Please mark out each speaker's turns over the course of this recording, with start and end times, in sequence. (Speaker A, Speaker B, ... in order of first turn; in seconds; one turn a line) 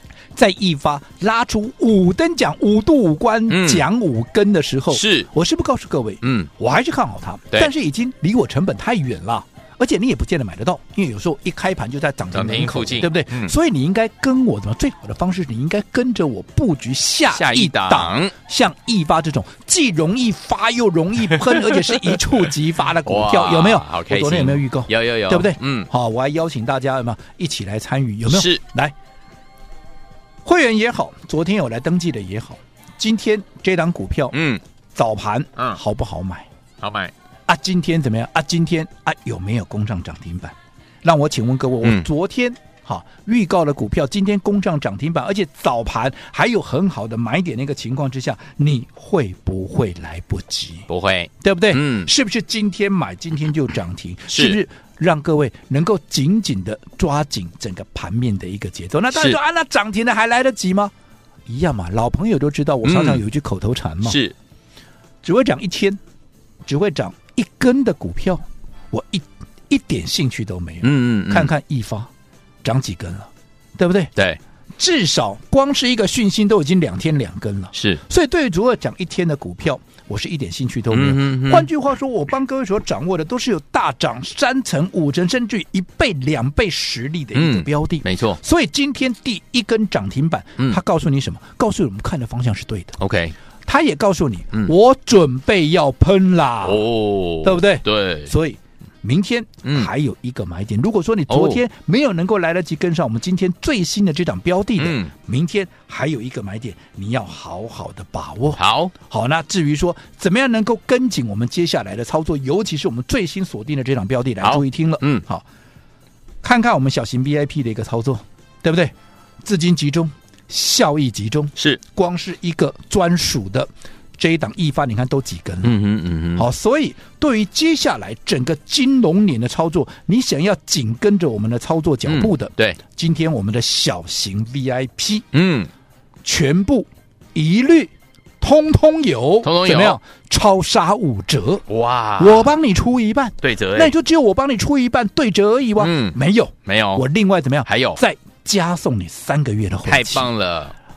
Speaker A: 0.3-28.9
Speaker B: 3.5-3.8
Speaker B: 4.9-5.3
Speaker B: 6.2-6.5
Speaker B: 12.3-13.5
Speaker B: 17.3-18.3
Speaker B: 21.4-22.2
Speaker B: 23.0-25.9
Speaker B: 28.3-28.6
Speaker A: 30.4-34.4
Speaker B: 34.3-34.6
Speaker A: 34.9-36.5
Speaker B: 36.8-37.1
Speaker A: 37.5-50.9
Speaker B: 41.8-42.1
Speaker B: 50.9-52.1
Speaker A: 51.4-60.9
Speaker B: 54.3-54.6
Speaker B: 59.1-59.4
Speaker A: 61.5-64.2
Speaker B: 62.8-63.2
Speaker B: 64.0-64.3
Speaker A: 65.2-66.0
Speaker A: 66.6-72.1
Speaker B: 70.8-71.5
Speaker A: 72.6-74.1
Speaker A: 74.8-93.0
Speaker B: 77.7-78.0
Speaker B: 80.9-81.7
Speaker B: 87.3-88.4
Speaker B: 93.0-93.3
Speaker A: 93.7-96.9
Speaker B: 96.6-98.3
Speaker A: 97.4-115.4
Speaker B: 99.6-99.9
Speaker B: 101.3-101.6
Speaker B: 104.8-105.1
Speaker B: 108.5-108.9
Speaker B: 114.4-115.2
Speaker A: 116.4-125.8
Speaker B: 125.6-126.5
Speaker A: 126.3-135.2
Speaker B: 132.0-132.8
Speaker B: 135.3-135.7
Speaker A: 136.2-141.6
Speaker B: 139.4-140.0
Speaker B: 141.7-142.5
Speaker A: 142.2-150.3
Speaker B: 143.4-143.9
Speaker B: 145.8-147.0
Speaker B: 147.7-148.0
Speaker B: 149.8-150.7